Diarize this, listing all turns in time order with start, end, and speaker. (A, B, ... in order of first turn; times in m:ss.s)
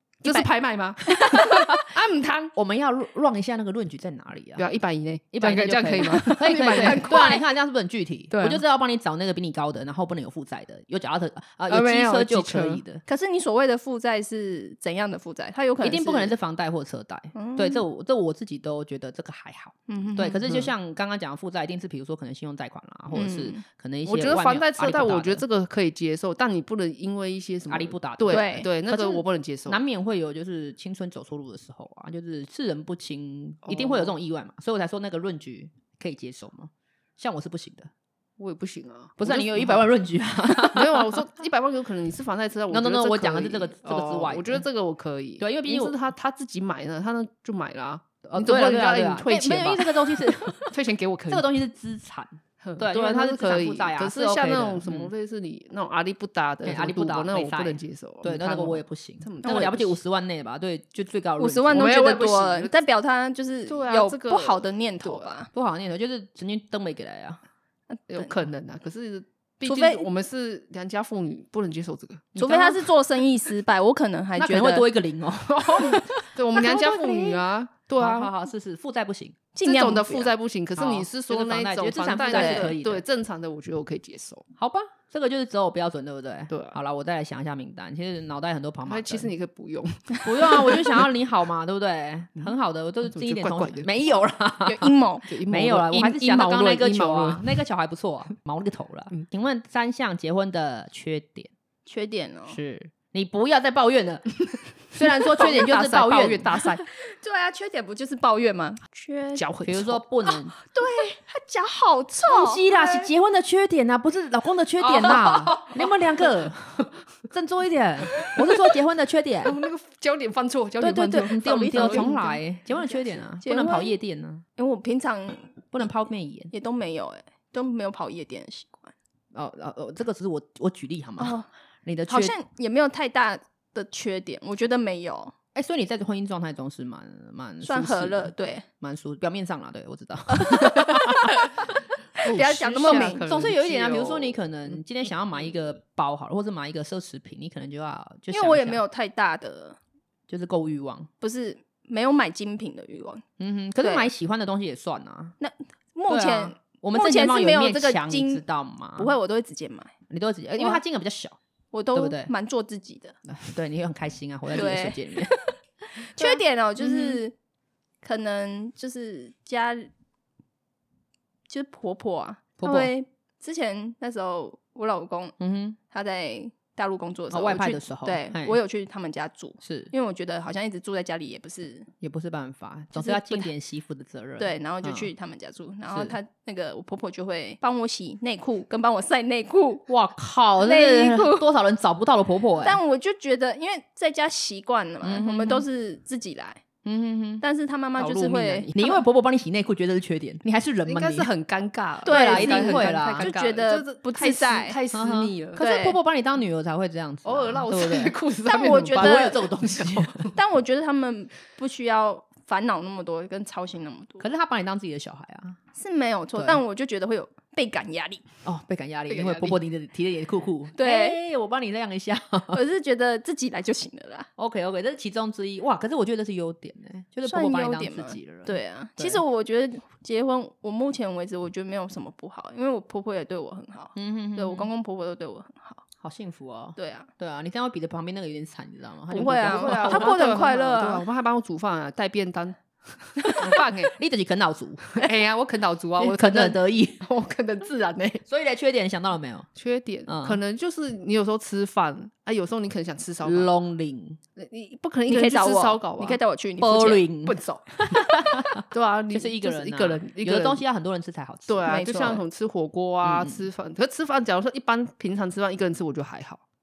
0:00.2-0:02.5 A
0:01.0-0:01.9 B
0:02.5-0:04.6 B
0:04.6-0:07.4 A
0:05.3-0:13.0 B
0:06.4-0:07.4 C
0:08.3-0:08.6 A
0:11.7-0:12.8 A
0:13.0-0:16.3 C
0:15.8-0:25.4 B
0:17.3-0:17.8 C
0:19.9-0:20.4 C
0:23.1-0:23.6 C
0:24.0-0:29.8 A
0:27.7-0:37.9 B
0:28.3-0:28.7 C
0:33.6-0:34.1 A
0:38.4-0:39.8 A
0:39.2-0:41.2 B
0:40.5-0:51.5 A
0:42.7-0:44.6 B
0:45.4-0:46.0 B
0:48.2-0:50.7 B
0:51.3-0:55.1 B
0:52.6-1:00.0 A
0:56.6-1:02.0 B
0:59.4-0:59.7 C
1:01.4-1:05.5 C
1:01.7-1:02.7 A
1:03.7-1:05.3 A
1:05.5-1:07.4 B
1:07.9-1:08.3 C
1:08.1-1:12.3 A
1:09.6-1:10.1 C
1:12.3-1:12.9 B
1:12.4-1:14.9 C
1:14.4-1:17.4 B
1:15.5-1:18.3 A
1:18.0-1:19.4 B
1:19.5-1:20.3 C
1:19.6-1:24.4 A
1:20.8-1:23.0 B
1:22.3-1:22.8 C
1:24.6-1:29.3 B
1:26.5-1:26.8 A
1:28.8-1:31.0 A
1:30.2-1:41.5 B
1:33.0-1:33.9 A
1:34.6-1:35.3 C
1:35.3-1:37.5 A
1:41.8-1:42.6 C
1:42.5-1:46.6 B
1:45.2-1:46.8 A
1:46.9-1:49.4 C
1:49.3-1:50.0 A
1:49.6-1:50.5 B
1:50.5-1:53.1 C
1:52.2-1:59.6 B
1:54.8-1:56.4 A
1:59.4-2:03.3 A
2:00.8-2:04.4 B
2:01.4-2:02.3 C
2:03.4-2:04.0 C
2:04.6-2:05.5 C
2:05.7-2:06.5 B
2:06.5-2:08.9 C
2:09.3-2:12.3 B
2:11.2-2:11.5 C
2:12.1-2:15.3 C
2:15.5-2:21.4 B
2:17.6-2:18.6 C
2:20.4-2:21.5 C
2:22.2-2:23.3 C
2:22.2-2:24.8 A
2:22.8-2:28.8 B
2:28.3-2:29.8 C
2:30.3-2:31.1 B
2:31.2-2:33.2 C
2:33.4-2:35.4 B
2:33.8-2:34.1 C
2:35.4-2:38.4 C
2:36.1-2:39.1 B
2:39.0-2:39.9 C
2:40.1-2:41.4 B
2:41.7-2:43.2 C
2:41.9-2:42.3 B
2:43.3-2:45.4 B
2:44.5-2:47.3 C
2:46.2-2:47.2 B
2:48.0-2:49.9 C
2:51.5-2:55.4 C
2:52.6-2:52.9 B
2:55.4-2:55.8 B
2:55.9-3:01.9 C
2:57.3-2:58.6 B
2:59.6-2:59.9 B
3:02.0-3:05.1 B
3:02.9-3:03.5 C
3:04.4-3:09.9 C
3:05.9-3:06.2 B
3:09.9-3:12.8 B
3:10.6-3:11.4 C
3:12.6-3:16.6 C
3:15.0-3:15.6 B
3:16.8-3:17.4 B
3:17.4-3:18.9 C
3:18.0-3:18.8 A
3:18.7-3:21.3 B
3:20.8-3:25.6 A
3:22.0-3:24.8 C
3:22.0-3:23.3 B
3:24.9-3:28.2 B
3:25.6-3:26.0 C
3:27.2-3:30.3 A
3:28.4-3:29.4 C
3:28.9-3:30.3 B
3:30.3-3:34.2 C
3:34.2-3:35.6 B
3:35.8-3:38.2 C
3:38.4-3:42.6 B
3:39.1-3:39.6 A
3:40.8-3:41.2 C
3:42.5-3:44.3 C
3:44.4-3:49.2 B
3:47.2-3:55.8 C
3:53.9-3:54.7 B
3:56.0-4:00.1 B
3:56.8-3:57.1 C
3:59.1-4:01.0 C
3:59.2-4:03.9 A
4:03.2-4:05.1 B
4:04.9-4:08.2 A
4:06.0-4:07.0 B
4:08.2-4:09.5 B
4:09.6-4:13.5 A
4:10.1-4:10.4 B
4:13.2-4:14.2 B
4:14.4-4:16.2 A
4:15.1-4:17.1 C
4:16.6-4:21.6 B
4:17.2-4:18.0 A
4:18.7-4:20.6 A
4:21.5-4:26.4 A
4:21.7-4:22.2 C
4:23.0-4:23.4 B